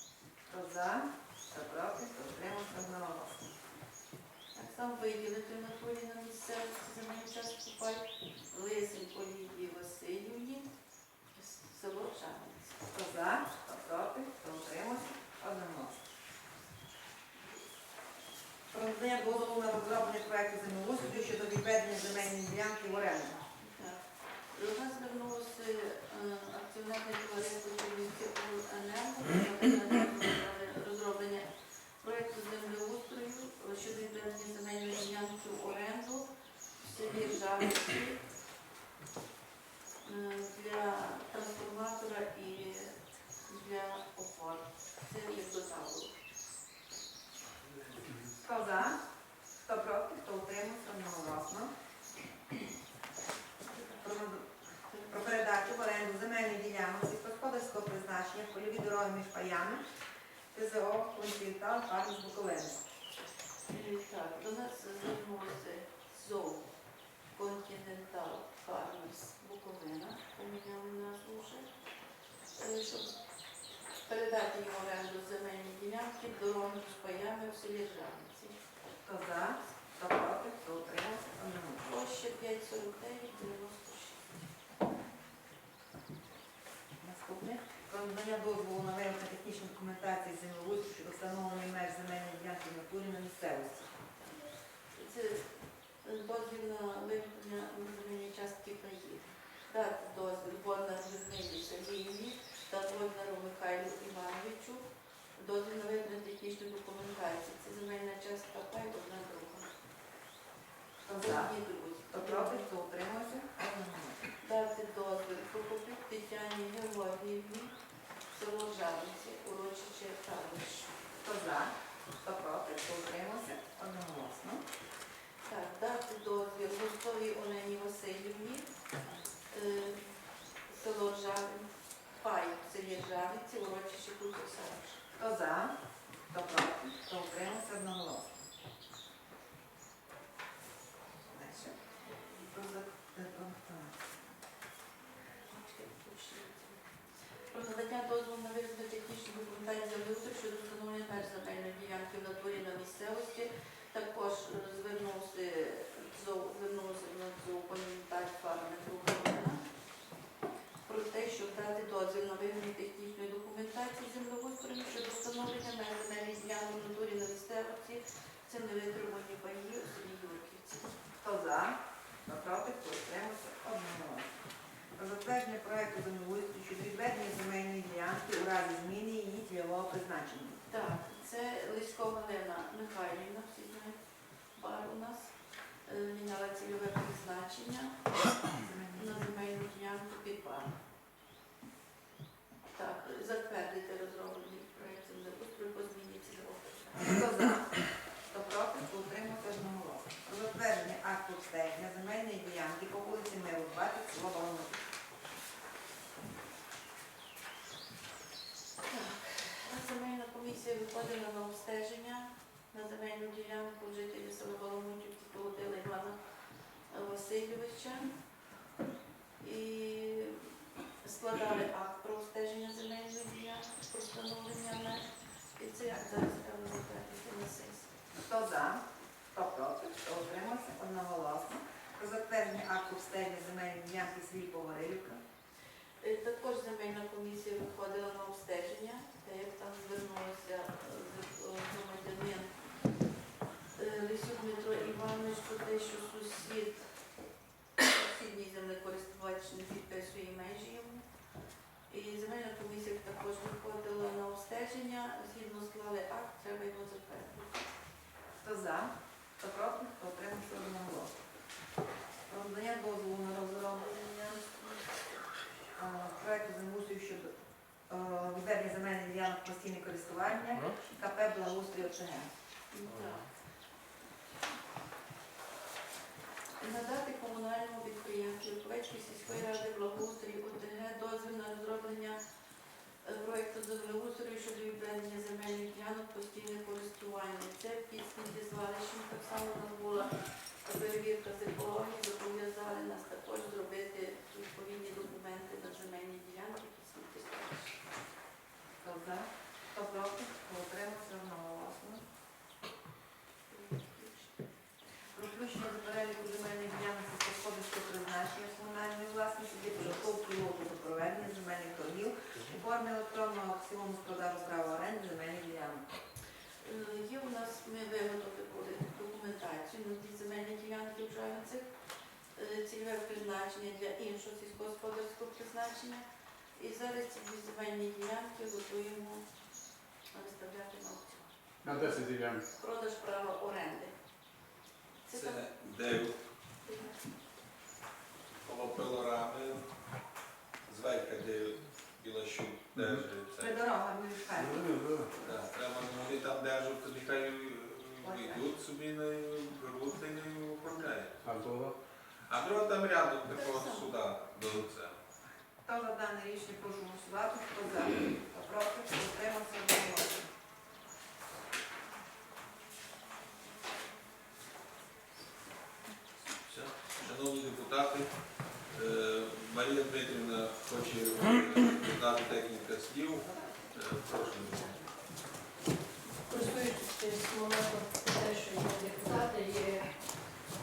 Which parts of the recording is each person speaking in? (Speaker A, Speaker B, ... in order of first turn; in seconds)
Speaker A: 0.5-3.5, 12.9-16.0, 18.7-23.4, 48.4-49.0, 49.6-51.7, 54.0-54.5, 55.1-59.8, 60.5-62.8, 79.0-81.9, 87.0-93.9, 111.0-111.5, 112.1-114.2, 121.2-124.6, 135.2-135.7, 136.3-138.3, 141.3-141.7, 142.5-144.0, 171.2-174.3, 175.0-180.6, 188.6-189.3, 196.9-197.8, 198.3-204.8, 228.2-228.8, 229.3-235.2, 258.4-261.1, 262.3-263.9, 265.8-267.3, 267.9-272.3, 298.8-302.0, 305.2-315.8, 343.4-345.4, 348.0-348.4, 355.7-360.3, 373.2-373.7
Speaker B: 4.5-10.7, 11.4-12.8, 23.6-31.5, 32.0-36.3, 36.8-38.2, 40.0-46.1, 53.7-54.1, 54.9-55.2, 63.7-66.7, 67.3-71.7, 72.5-73.1, 74.1-78.6, 81.8-84.4, 94.9-109.7, 111.2-112.7, 114.4-117.8, 118.3-120.9, 125.5-128.7, 129.5-130.0, 130.7-135.0, 145.5-146.8, 147.5-159.6, 160.9-171.0, 180.7-184.0, 184.6-185.3, 185.9-188.0, 188.9-190.8, 192.7-197.2, 208.9-216.2, 216.9-218.1, 219.4-220.4, 221.0-227.9, 236.0-242.5, 243.8-246.9, 247.8-251.1, 251.9-257.7, 263.8-264.8, 272.7-273.3, 276.6-282.2, 283.0-290.1, 290.6-297.8, 303.5-304.4, 316.6-321.7, 322.4-326.1, 326.6-329.3, 330.1-333.9, 335.1-335.5, 336.6-337.0, 353.2-354.0
Speaker C: 331.6-332.4, 344.4-345.1, 351.2-351.8
Speaker D: 335.1-336.1, 338.4-339.7, 340.7-343.6, 345.2-351.3, 352.3-354.9, 366.4-368.1, 368.7-374.7
Speaker E: 376.3-379.9